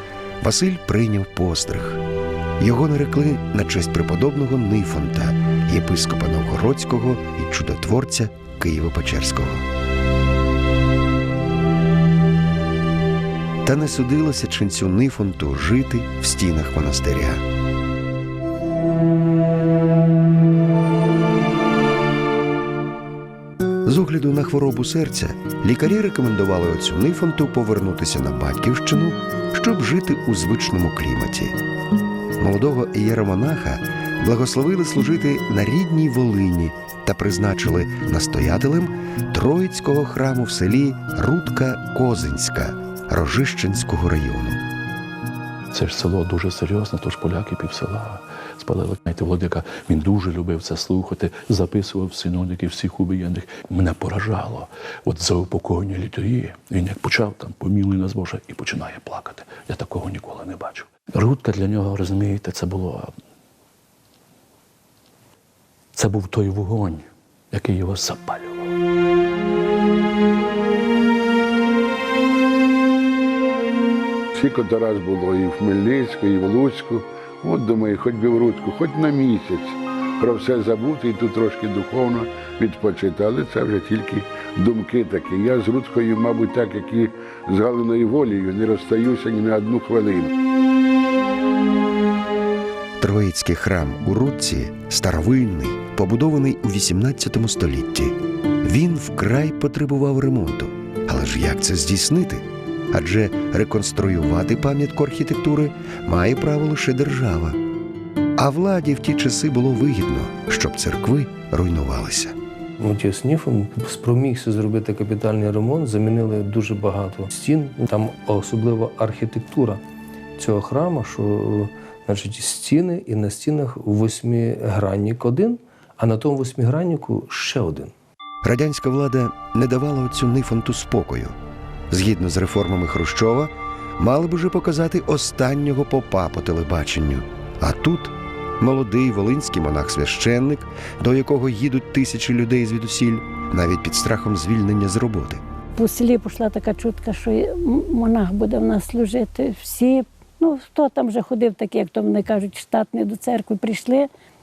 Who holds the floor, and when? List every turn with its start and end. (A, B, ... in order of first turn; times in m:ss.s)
0:00.4-0:02.0 A
0:02.6-0:09.7 A
0:13.6-0:17.4 A
0:23.8-0:31.6 A
0:32.4-0:44.6 A
0:45.7-1:03.2 B
1:06.0-1:08.7 B
1:14.3-1:30.3 C
1:33.0-1:47.6 A
1:48.4-1:52.4 A
1:52.8-1:59.8 D
2:00.4-2:07.9 D
2:08.4-2:11.4 A
2:11.9-2:25.4 A
2:25.8-2:34.1 E